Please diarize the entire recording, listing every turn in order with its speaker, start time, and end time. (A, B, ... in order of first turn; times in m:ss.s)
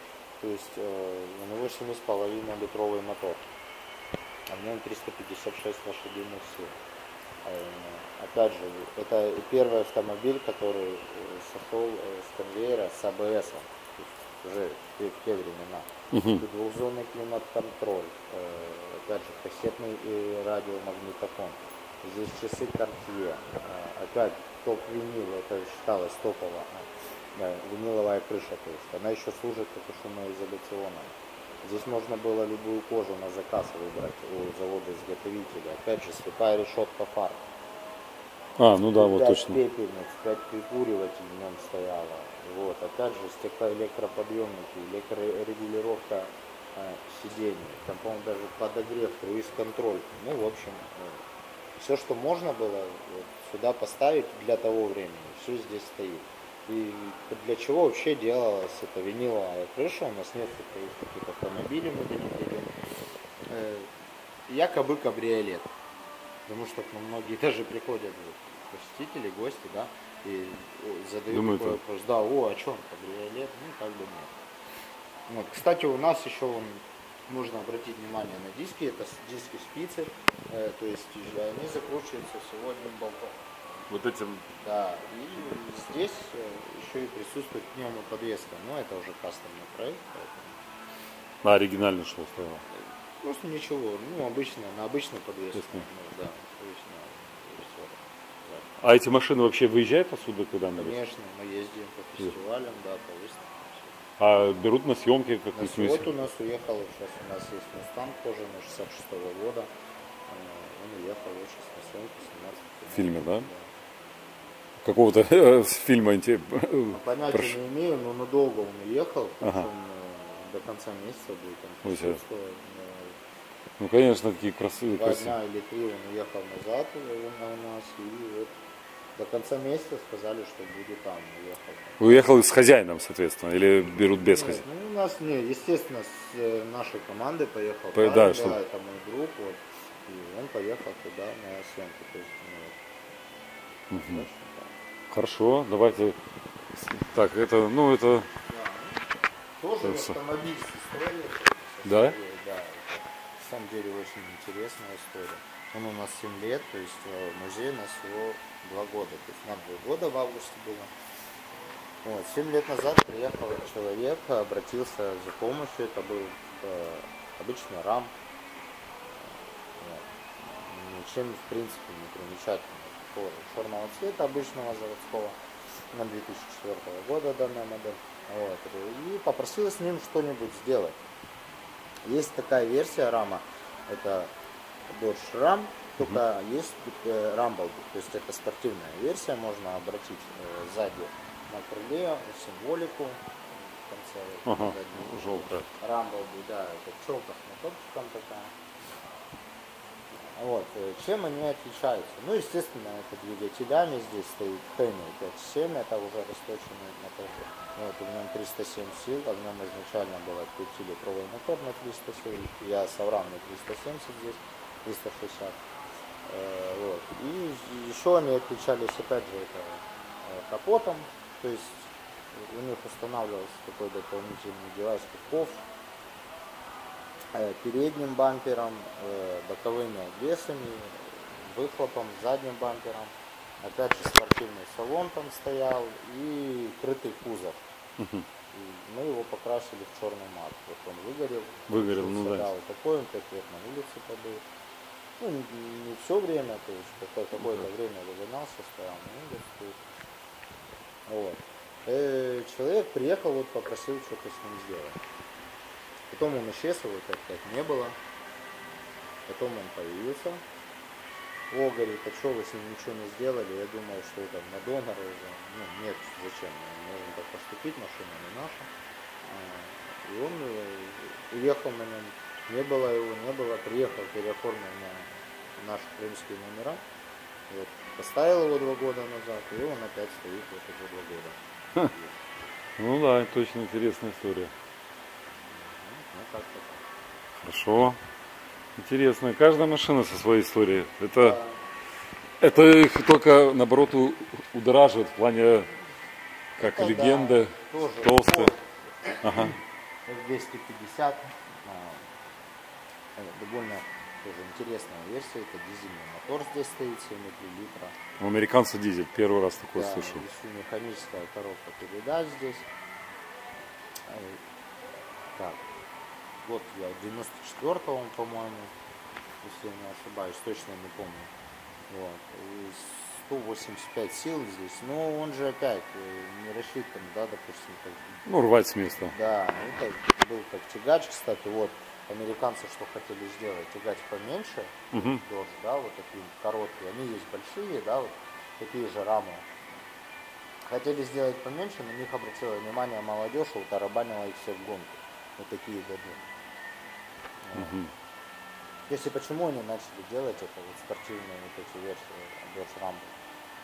0:00.4-0:03.4 A
0:04.5-0:06.7 A
0:07.4-0:37.4 A
0:16.1-0:16.4 B
0:38.6-0:39.6 B
0:38.9-0:51.2 A
0:51.8-1:02.7 A
1:03.4-1:03.9 A
1:04.5-1:05.7 A
1:06.5-1:14.4 A
1:11.3-1:11.8 B
1:15.3-1:30.6 A
1:23.9-1:24.4 B
1:31.4-1:32.6 B
1:32.7-1:38.7 A
1:35.6-1:35.8 B
1:38.8-1:41.0 B
1:40.8-1:44.0 A
1:44.2-1:46.1 B
1:45.5-1:49.7 A
1:50.3-1:53.7 A
1:52.9-1:53.5 B
1:54.8-1:57.6 B
1:56.9-2:03.2 A
1:59.4-1:59.7 B
2:01.8-2:02.2 B
2:03.8-2:05.3 B
2:04.9-2:08.5 A
2:09.2-2:12.3 A
2:12.0-2:14.6 B
2:14.0-2:22.8 A
2:17.9-2:18.6 B
2:23.9-2:24.2 B
2:23.9-2:24.8 A
2:25.1-2:26.2 B
2:26.7-2:28.3 B
2:28.5-2:40.9 A
2:29.8-2:30.2 B
2:31.8-2:32.2 B
2:42.0-2:48.1 A
2:49.2-2:55.4 A
2:55.9-3:01.0 A
3:02.0-3:04.3 A
3:04.9-3:18.5 A
3:14.4-3:15.7 B
3:20.2-3:35.6 A
3:36.2-3:45.6 A
3:47.3-3:57.6 A
3:58.0-3:58.3 B
3:58.5-4:04.4 A
4:01.7-4:02.5 B
4:05.2-4:09.8 A
4:07.4-4:07.7 B
4:11.1-4:15.0 A
4:16.1-4:18.0 A
4:19.3-4:20.4 A
4:21.5-4:28.7 A
4:29.2-4:36.8 A
4:37.5-4:42.2 A
4:42.8-4:44.5 B
4:45.5-4:46.8 A
4:47.4-4:48.0 B
4:48.8-4:51.4 B
4:51.2-4:51.6 A
4:52.4-4:55.7 B
4:56.6-4:58.5 B
4:56.6-5:02.1 A
4:59.2-4:59.5 B
5:03.2-5:07.9 A
5:08.2-5:10.2 B
5:09.7-5:12.7 A
5:14.1-5:14.4 A
5:15.4-5:15.6 A
5:16.4-5:18.7 A
5:19.4-5:21.3 A
5:21.9-5:28.2 A
5:28.2-5:29.1 B
5:29.1-5:39.5 A
5:34.9-5:35.2 B
5:40.7-5:46.2 A
5:47.4-5:47.8 A
5:47.5-5:47.9 B
5:48.9-5:53.1 A